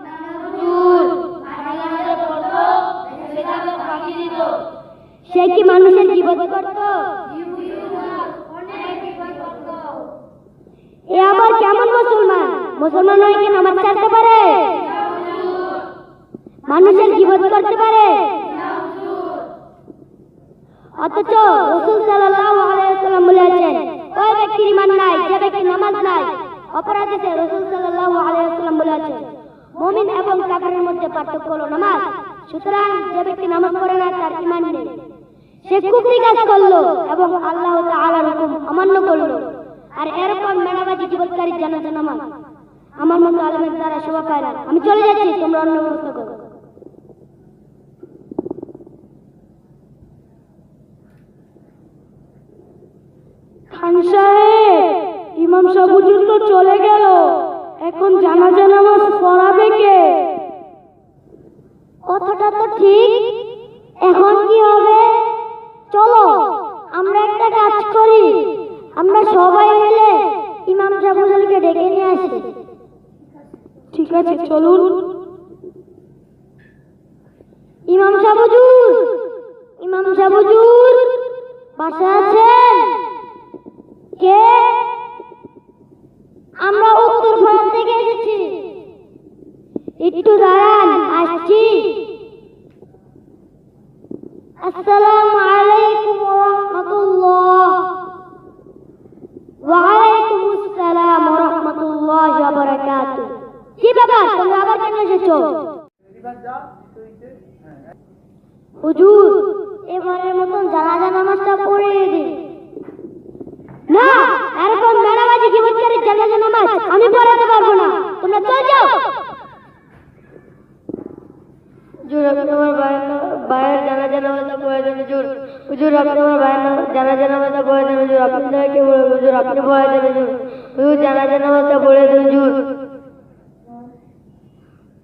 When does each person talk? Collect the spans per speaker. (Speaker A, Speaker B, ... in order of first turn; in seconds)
Speaker A: 0.3-4.6, 5.2-7.1, 11.1-14.9, 16.7-19.3, 21.0-29.2, 29.8-34.9, 35.6-39.5, 40.0-42.2, 43.0-46.4, 62.1-63.3, 64.0-65.2, 65.9-68.4, 69.0-72.4, 77.9-79.0, 79.8-81.1, 81.8-83.0, 84.2-84.8, 86.6-88.6, 90.0-92.0, 94.6-97.8, 99.6-105.5, 108.8-112.4, 113.9-119.0
Speaker B: 53.7-60.2, 73.9-75.1
Speaker C: 122.0-132.6